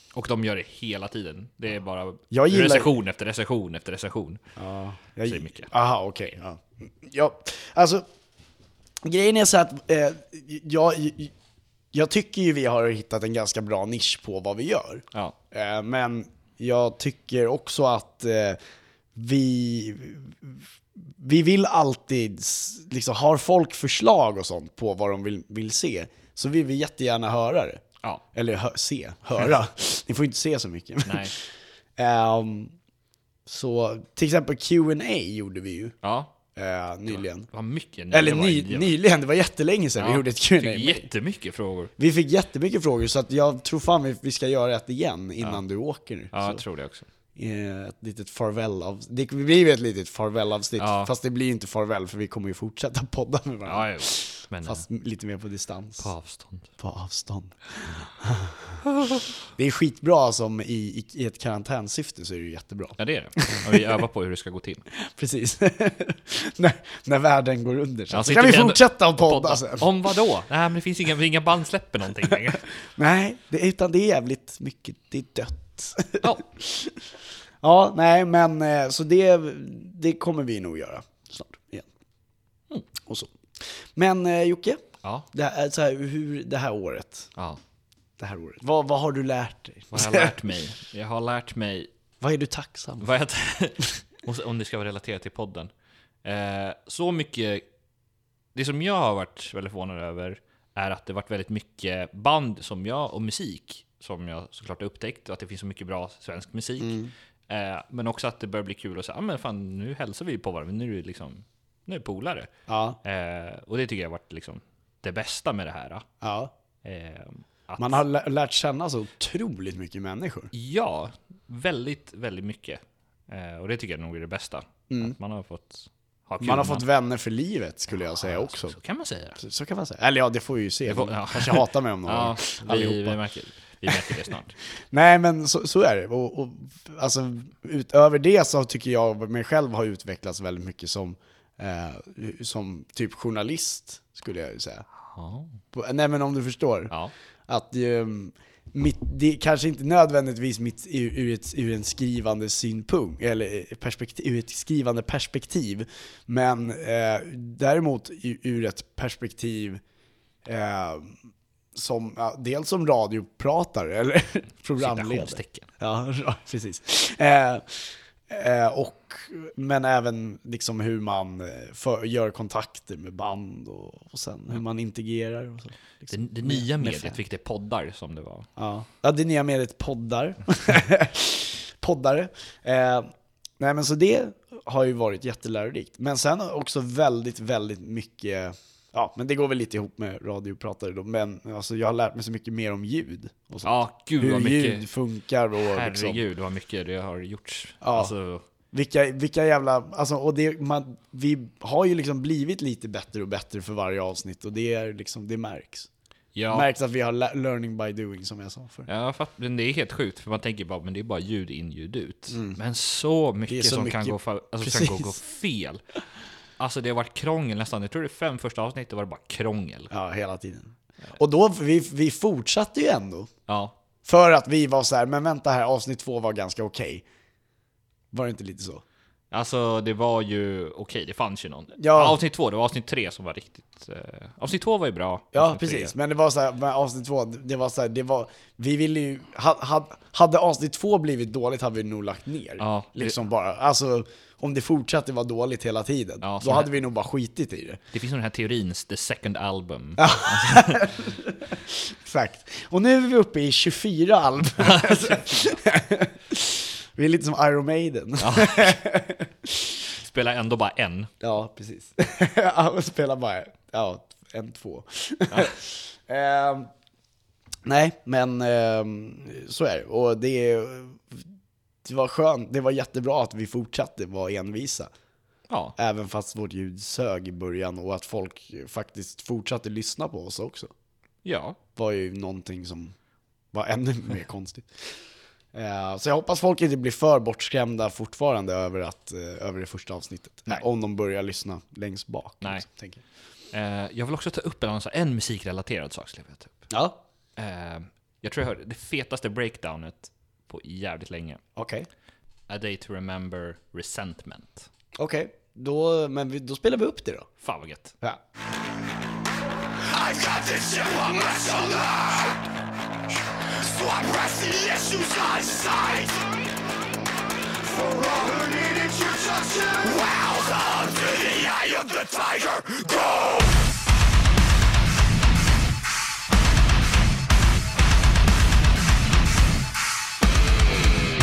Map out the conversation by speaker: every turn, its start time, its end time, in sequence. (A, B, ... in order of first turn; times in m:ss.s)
0:00.1-0:04.4 A
0:02.3-0:02.9 B
0:04.6-0:08.0 B
0:05.3-0:05.7 A
0:09.0-0:11.3 B
0:11.9-0:18.6 B
0:19.1-0:27.8 B
0:28.3-0:31.4 B
0:31.0-0:31.4 A
0:32.0-0:32.7 B
0:33.4-0:35.9 B
0:36.0-0:36.3 A
0:36.6-0:37.5 B
0:37.1-0:39.0 A
0:38.1-0:41.1 B
0:40.0-0:41.9 A
0:42.0-0:46.6 B
0:46.3-0:47.1 A
0:47.3-0:56.1 B
0:50.8-0:51.1 A
0:53.6-0:54.8 A
0:56.0-0:56.7 A
0:56.8-0:58.8 B
0:59.5-1:03.8 B
1:03.0-1:04.8 A
1:05.0-1:09.9 B
1:08.1-1:12.6 A
1:13.0-1:17.1 B
1:17.6-1:21.9 B
1:23.0-1:27.3 B
1:28.2-1:30.3 B
1:29.9-1:31.9 A
1:32.2-1:33.1 B
1:33.0-1:35.7 A
1:36.2-1:37.6 A
1:38.5-1:52.5 A
1:46.8-1:47.1 B
1:52.7-1:53.0 B
1:53.0-1:56.0 A
1:56.2-1:56.5 B
1:56.8-1:58.0 A
1:57.8-2:00.5 B
2:00.5-2:06.9 A
2:04.9-2:05.1 B
2:06.4-2:08.8 B
2:08.1-2:09.4 A
2:09.4-2:13.2 B
2:10.8-2:14.5 A
2:13.9-2:14.2 B
2:14.9-2:24.8 B
2:25.0-2:25.5 A
2:25.7-2:26.9 B
2:27.5-2:39.8 B
2:40.4-2:41.2 B
2:41.7-2:57.2 B
2:44.8-2:45.7 A
2:56.1-2:58.5 A
2:58.6-3:16.2 B
3:13.6-3:14.8 A
3:15.7-3:18.4 A
3:17.8-3:18.1 B
3:18.7-3:25.9 B
3:26.3-3:26.7 A
3:26.5-3:28.9 B
3:28.9-3:35.8 A
3:32.3-3:32.6 B
3:33.5-3:35.1 B
3:36.6-3:39.9 A
3:39.9-3:43.3 B
3:43.5-3:43.7 A
3:44.0-3:47.0 B
3:48.1-3:48.8 B
3:49.3-3:55.9 A
3:51.8-3:52.2 B
3:55.3-4:07.8 B
4:02.6-4:03.2 A
4:06.2-4:06.7 A
4:07.9-4:10.9 A
4:10.0-4:19.7 B
4:14.6-4:15.2 A
4:18.2-4:18.8 A
4:19.9-4:21.1 A
4:21.2-4:26.7 B
4:27.6-4:31.2 B
4:31.8-4:34.9 B
4:35.5-4:35.8 A
4:35.8-4:40.7 B
4:41.2-4:41.6 A
4:41.8-4:42.9 B
4:43.5-4:45.0 B
4:45.5-4:53.0 B
4:53.5-4:56.7 A
4:56.7-4:57.0 B
4:57.4-5:01.4 A
5:01.6-5:01.9 B
5:02.5-5:04.7 A
5:05.0-5:07.3 B
5:07.4-5:07.9 A
5:10.0-5:11.9 C
5:13.8-5:16.1 C
5:17.8-5:23.0 C
5:18.5-5:19.0 B